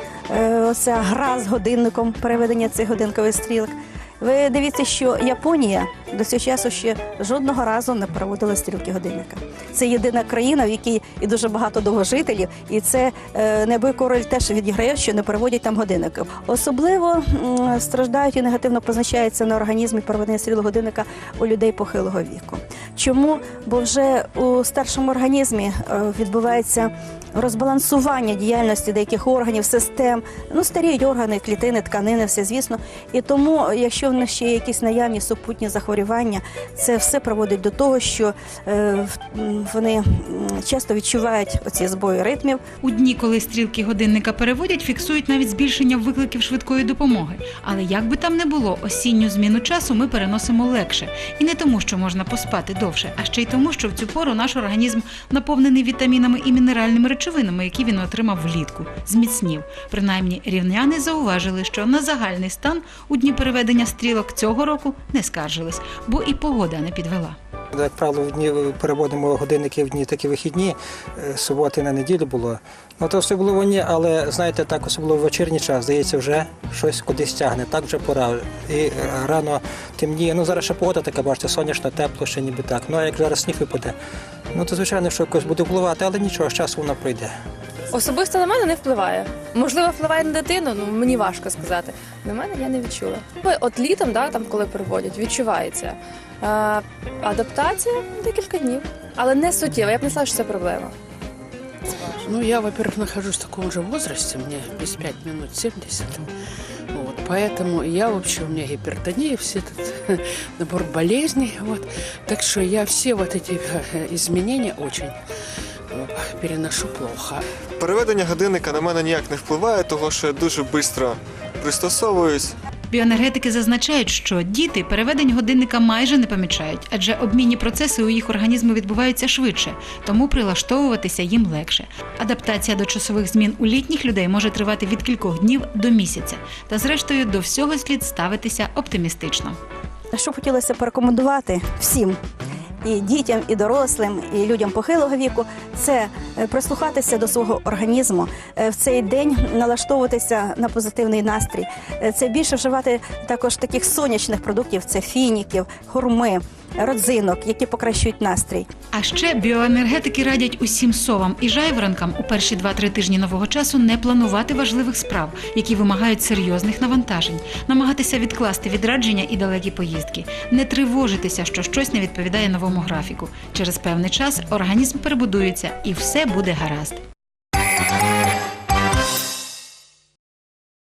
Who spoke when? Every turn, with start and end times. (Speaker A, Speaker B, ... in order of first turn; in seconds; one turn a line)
Speaker A: 0.3-42.6
Speaker B: 42.8-67.3
Speaker C: 67.7-83.9
Speaker C: 84.5-87.3
Speaker D: 87.9-100.9
Speaker E: 102.2-106.3
Speaker E: 106.9-115.2
Speaker E: 115.9-117.4
Speaker F: 117.8-122.5
Speaker B: 122.9-139.6
Speaker A: 140.1-142.2
Speaker A: 142.8-158.7
Speaker B: 158.9-177.0